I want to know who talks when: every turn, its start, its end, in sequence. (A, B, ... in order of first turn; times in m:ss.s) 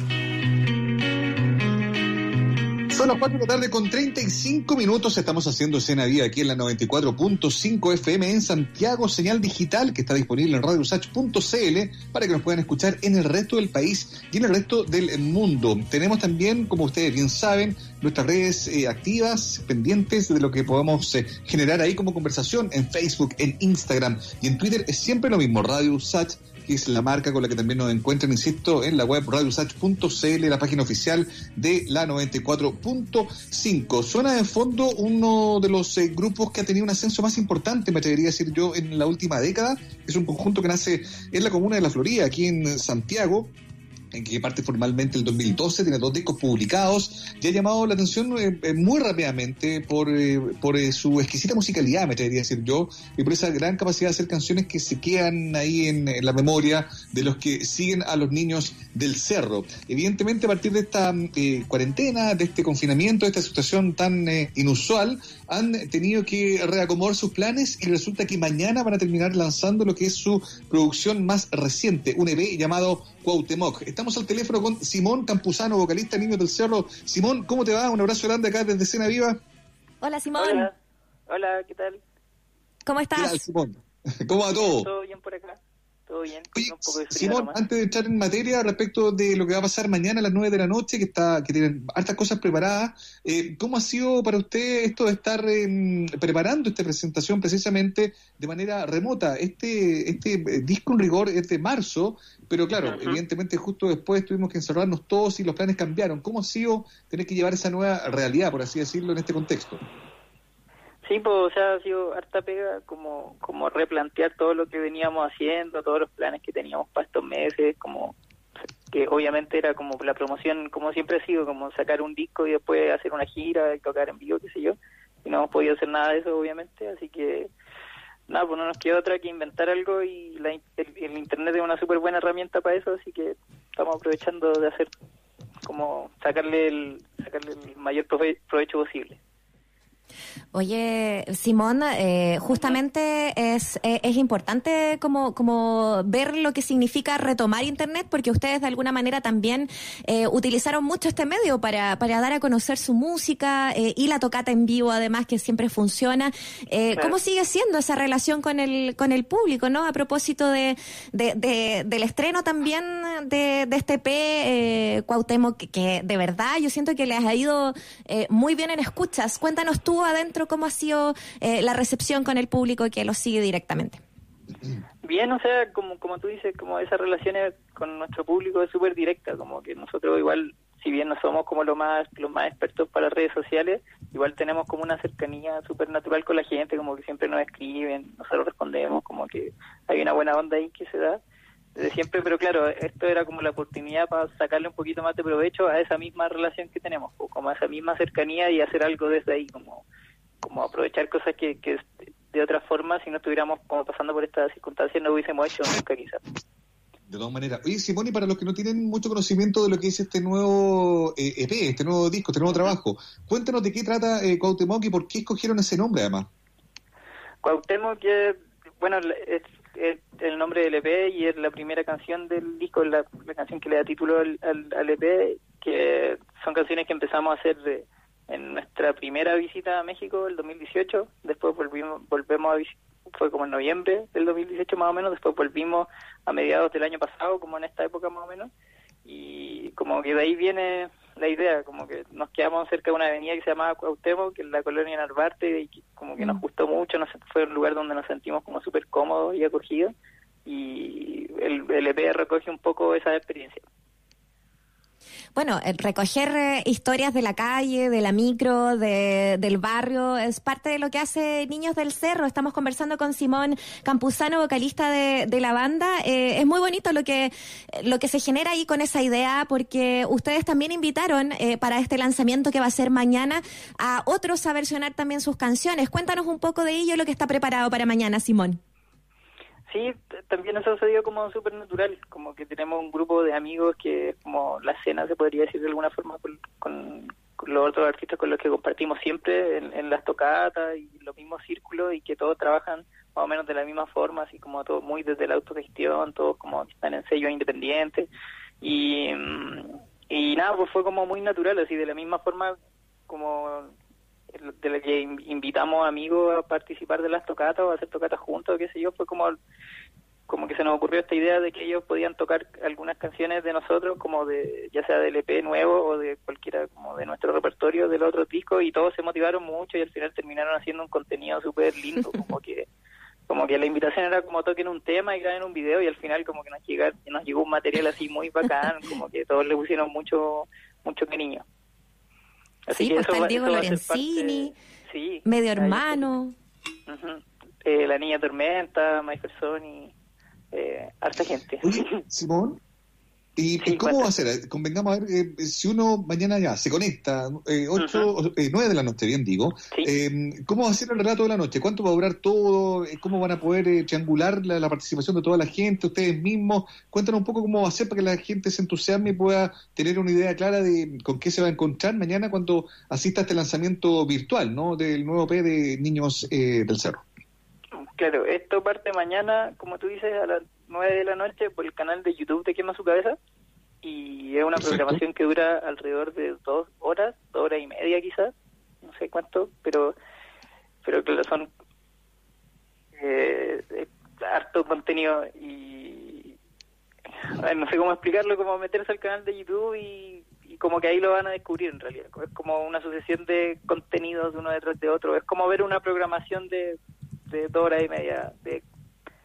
0:02.9-0:43.5 A
0:44.1-1:19.4 A
1:20.0-1:20.7 B
1:20.4-1:20.7 C
1:21.3-1:22.0 C
1:22.8-1:23.4 B
1:23.1-1:24.9 A
1:24.6-1:27.6 C
1:26.5-1:49.8 A
1:42.8-1:43.2 C
1:51.0-1:58.1 C
1:58.9-2:07.5 C
2:08.3-2:14.9 C
2:15.6-2:19.2 C
2:20.5-2:54.0 B
2:22.5-2:22.8 C
2:55.0-3:11.2 C
3:11.8-3:19.8 C
3:20.4-3:26.2 C
3:27.1-3:36.3 A
3:37.4-3:58.5 C
3:59.0-4:09.9 C
4:10.4-4:13.6 C
4:15.3-4:38.6 B
4:39.7-4:58.1 C
4:58.6-5:02.6 C
5:03.1-5:03.7 C
5:04.3-5:09.4 C
5:10.3-5:22.7 C
5:23.3-5:31.4 C
5:32.7-5:36.1 C
5:32.7-5:34.5 B
5:35.2-5:36.3 B
5:36.9-5:39.9 C
5:40.5-5:41.8 C
5:41.6-5:42.6 A
5:43.4-6:07.0 A
5:43.6-5:44.1 C
5:47.8-5:48.1 C
6:08.0-6:13.2 C
6:13.8-6:18.3 C
6:14.5-6:15.0 A
6:18.8-6:19.9 C
6:20.8-6:21.5 C
6:23.0-6:26.3 C
6:27.4-6:36.8 C
6:37.3-6:38.6 C